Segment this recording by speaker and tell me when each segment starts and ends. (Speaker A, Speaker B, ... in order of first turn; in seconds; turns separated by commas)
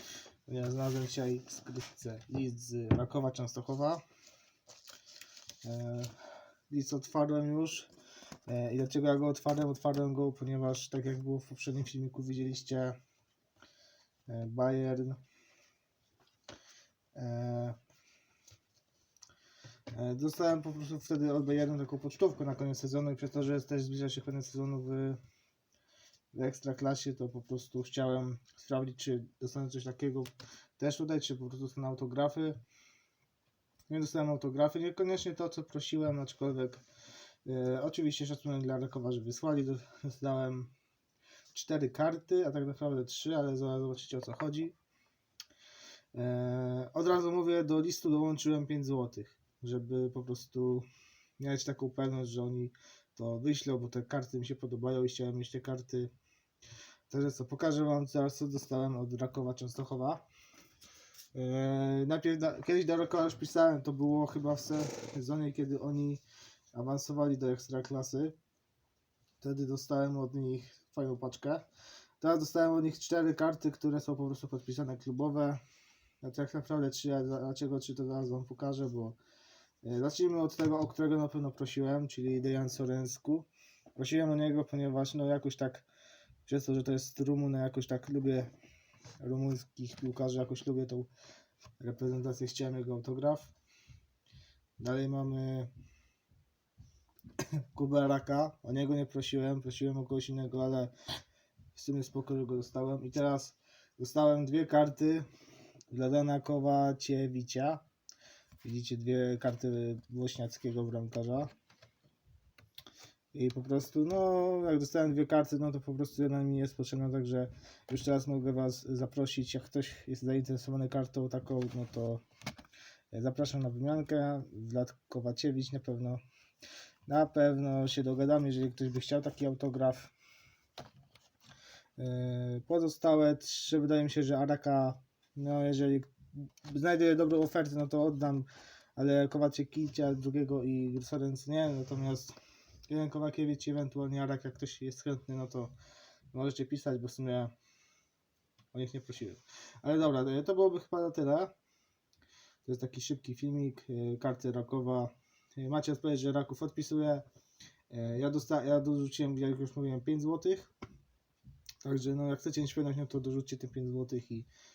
Speaker A: 0.5-4.0, Speaker A: 5.6-6.1, Speaker A: 6.7-7.9, Speaker A: 8.5-13.0, Speaker A: 14.3-15.2, Speaker A: 17.1-17.8, Speaker A: 19.9-25.2, Speaker A: 26.3-32.6, Speaker A: 33.9-36.8, Speaker A: 37.5-40.7, Speaker A: 41.5-44.8, Speaker A: 46.1-50.9, Speaker A: 51.4-56.1, Speaker A: 57.1-60.3, Speaker A: 61.3-66.2, Speaker A: 66.7-68.4, Speaker A: 69.4-71.7, Speaker A: 72.2-75.6, Speaker A: 76.2-79.2, Speaker A: 79.8-85.9, Speaker A: 86.5-88.5, Speaker A: 89.2-91.1, Speaker A: 91.8-93.5, Speaker A: 94.8-95.7, Speaker A: 97.4-100.9, Speaker A: 101.8-105.3, Speaker A: 105.9-107.8, Speaker A: 108.6-111.5, Speaker A: 113.3-122.2, Speaker A: 123.1-126.2, Speaker A: 127.1-130.1, Speaker A: 132.0-136.1, Speaker A: 136.6-142.3, Speaker A: 142.9-145.7, Speaker A: 146.3-147.5, Speaker A: 148.7-151.5, Speaker A: 152.7-157.2, Speaker A: 157.9-160.7, Speaker A: 161.8-164.5